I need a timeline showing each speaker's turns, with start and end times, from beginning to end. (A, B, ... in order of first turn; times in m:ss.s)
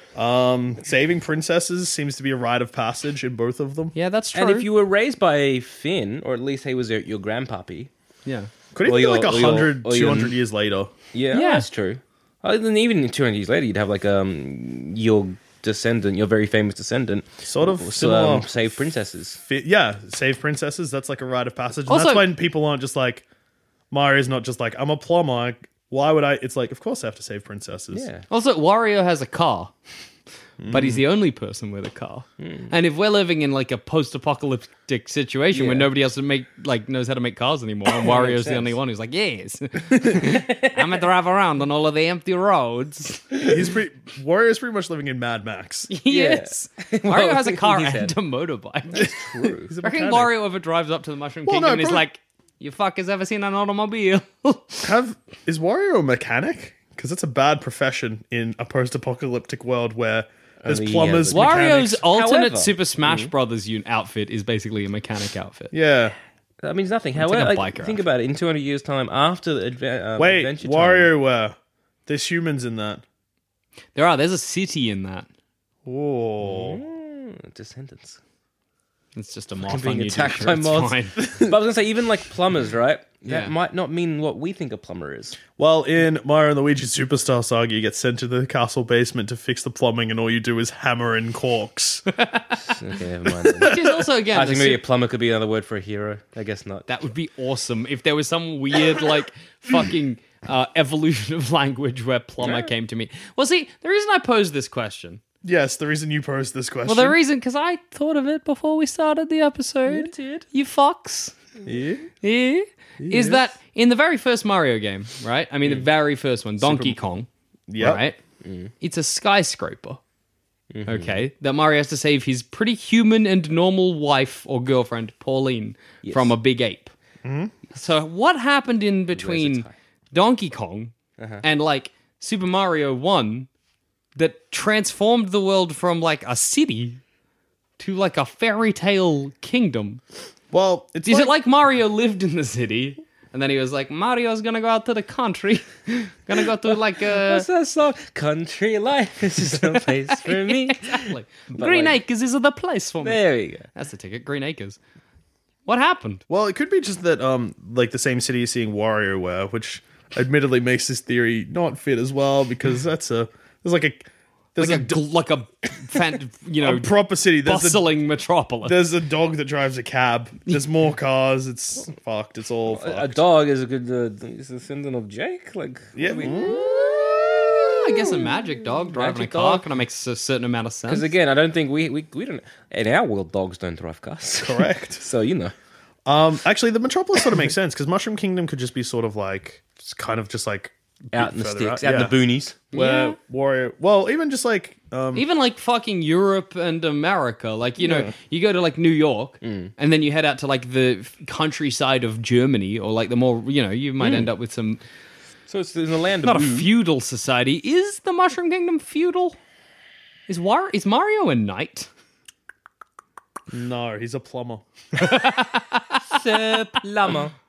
0:00.2-0:03.9 A
0:04.0-0:04.7 B
0:04.3-0:07.9 C
0:08.8-0:10.9 A
0:08.8-0:10.4 C
0:11.1-0:19.4 C
0:11.3-0:11.7 B
0:17.4-0:18.5 A
0:19.5-0:23.2 A
0:21.9-0:22.4 B
0:23.9-0:28.1 A
0:27.9-0:28.3 C
0:28.3-0:29.7 B
0:30.6-0:31.0 A
0:30.7-0:43.3 B
0:32.4-0:32.7 C
0:35.5-0:35.9 C
0:37.9-0:38.8 C
0:40.0-0:41.0 C
0:43.4-0:45.9 A
0:45.9-0:49.1 B
0:46.1-0:48.2 C
0:49.0-0:49.7 C
0:49.0-0:50.4 A
0:49.8-0:54.8 B
0:51.5-0:52.0 A
0:54.8-1:02.0 A
1:00.6-1:03.3 C
1:01.3-1:05.7 B
1:05.7-1:06.2 A
1:06.6-1:11.1 C
1:07.2-1:08.0 B
1:10.2-1:11.6 A
1:12.1-1:13.0 A
1:14.0-1:15.3 B
1:15.8-1:16.8 A
1:16.4-1:18.2 C
1:19.2-1:21.3 B
1:19.6-1:25.4 C
1:23.3-1:23.5 B
1:25.6-1:32.0 A
1:32.1-1:32.8 B
1:32.7-1:36.9 C
1:33.6-1:34.8 B
1:36.9-1:45.2 B
1:42.4-1:42.7 C
1:45.4-1:47.2 A
1:46.9-1:51.3 B
1:49.9-1:50.4 C
1:51.7-1:52.1 A
1:52.2-1:58.2 B
1:53.0-1:53.4 A
1:57.7-1:58.0 A
1:58.4-1:58.7 C
1:58.8-2:00.0 B
2:00.7-2:01.2 C
2:00.9-2:06.9 B
2:06.0-2:06.3 C
2:07.2-2:07.5 A
2:07.7-2:13.5 B
2:09.1-2:09.7 C
2:11.2-2:11.4 C
2:14.2-2:17.0 B
2:17.8-2:20.0 B
2:20.5-2:21.4 A
2:21.1-2:27.5 B
2:27.1-2:32.0 C
2:29.8-2:34.8 B
2:33.0-2:33.7 C
2:35.7-2:36.2 B
2:36.3-2:45.0 A
2:44.6-2:48.9 B
2:46.6-2:47.9 A
2:48.6-2:53.3 A
2:52.7-2:59.7 C
2:56.0-2:57.8 A
2:57.7-3:01.1 B
3:00.9-3:05.5 C
3:04.4-3:05.0 A
3:06.1-3:12.2 A
3:11.1-3:12.6 C
3:12.7-3:15.3 A
3:12.7-3:13.2 B
3:15.1-3:24.8 B
3:17.8-3:18.1 A
3:19.4-3:19.7 C
3:24.0-3:24.3 C
3:25.5-3:26.7 C
3:26.2-3:29.4 B
3:30.3-3:31.9 B
3:33.5-3:34.7 A
3:35.0-3:36.6 B
3:36.1-3:37.3 C